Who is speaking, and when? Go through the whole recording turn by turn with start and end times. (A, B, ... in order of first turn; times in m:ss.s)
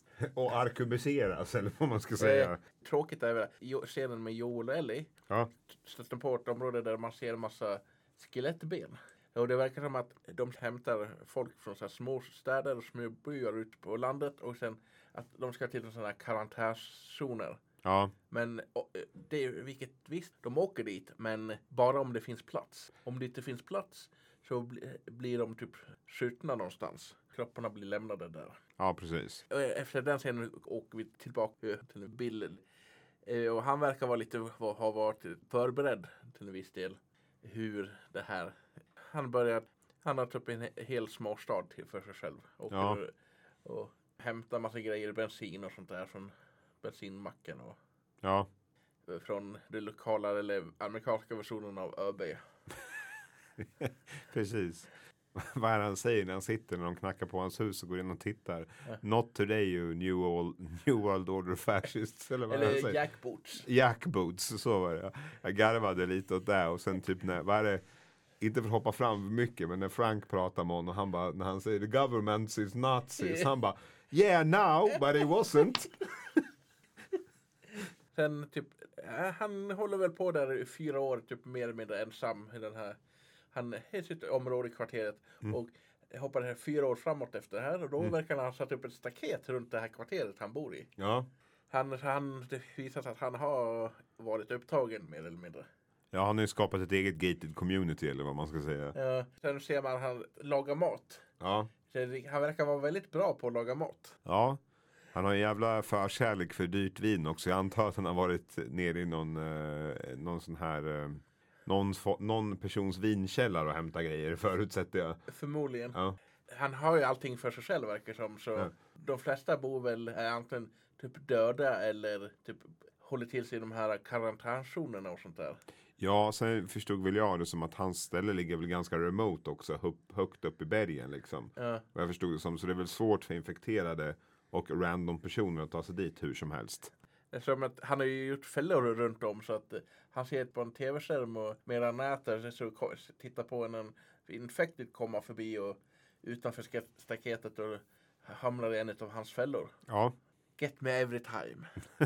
0:00.2-0:02.6 A
0:02.2-0:05.1 B
0:05.7-0:17.6 B
0:17.8-0:18.1 A
0:18.3-0:28.6 B
0:28.8-0:29.4 A
0:29.5-0:32.6 B
0:33.2-0:43.1 B
0:42.7-0:43.0 A
0:43.6-0:47.8 B
0:48.2-0:48.5 A
0:49.1-0:52.4 B
0:53.6-1:03.0 A
1:02.5-1:03.7 B
1:03.6-1:07.8 A
1:08.4-1:16.4 A
1:13.2-1:13.5 B
1:18.1-1:23.0 B
1:23.5-1:30.9 B
1:31.0-1:31.3 A
1:31.7-1:35.7 B
1:36.1-1:39.0 A
1:38.9-1:41.2 B
1:41.4-1:41.7 A
1:41.9-1:44.2 B
1:44.2-1:44.6 A
1:45.1-1:55.2 A
1:55.3-2:05.6 B
2:06.0-2:16.9 A
2:11.6-2:11.8 B
2:17.3-2:29.8 B
2:29.9-2:30.2 A
2:30.6-2:31.8 B